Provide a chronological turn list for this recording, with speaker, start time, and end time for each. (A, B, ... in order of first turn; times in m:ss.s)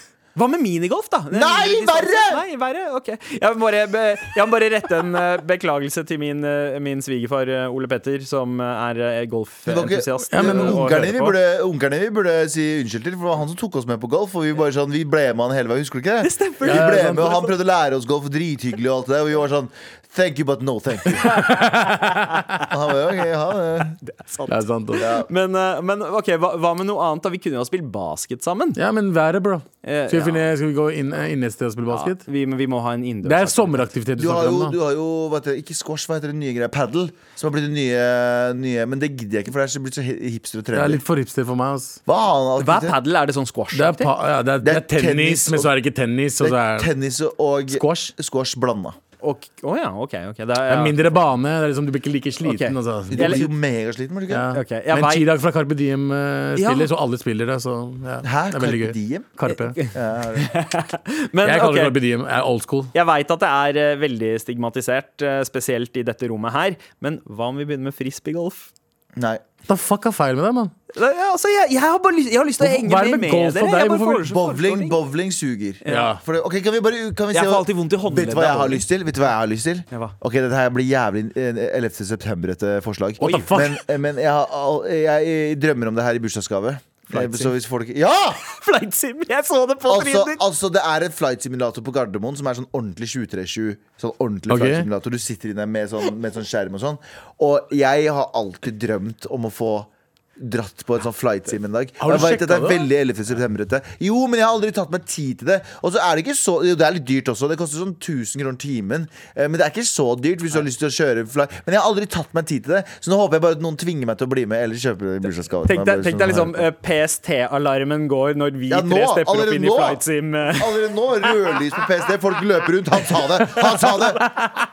0:00.4-0:11.4 A
0:01.3-0:02.4 B
0:09.7-0:21.4 B
0:10.3-0:11.1 C
0:16.2-0:17.5 A
0:16.6-0:17.4 C
0:21.2-0:22.4 C
0:21.3-0:21.6 A
0:22.6-0:24.0 B
0:24.0-0:28.8 A
0:24.5-0:25.1 C
0:25.0-0:25.3 B
0:28.8-0:32.2 C
0:29.8-0:30.5 A
0:31.9-0:33.8 A
0:33.2-0:34.8 C
0:34.2-0:41.0 B
0:40.7-0:42.0 C
0:42.1-0:43.0 B
0:42.6-0:44.1 A
0:43.7-0:46.9 C
0:44.6-0:45.7 B
0:46.4-0:49.0 B
0:47.7-0:48.1 C
0:49.2-0:51.1 A
0:50.7-0:53.5 C
0:52.4-0:53.4 A
0:53.1-0:54.5 B
0:54.3-0:59.8 C
0:54.5-0:55.3 A
0:56.6-0:56.9 A
0:58.2-0:59.3 B
0:59.5-1:02.0 A
0:59.9-1:00.5 B
1:01.4-1:02.9 C
1:02.9-1:08.7 A
1:09.2-1:09.4 B
1:09.7-1:10.7 C
1:10.9-1:15.0 A
1:12.6-1:14.3 C
1:14.3-1:28.4 B
1:15.8-1:16.1 A
1:15.9-1:16.2 C
1:17.3-1:18.8 A
1:23.2-1:23.8 C
1:23.2-1:23.5 A
1:27.1-1:27.5 A
1:28.4-1:30.4 A
1:29.9-1:56.7 B
1:34.5-1:34.9 C
1:42.0-1:42.9 C
1:55.6-2:00.8 A
1:58.7-2:04.3 B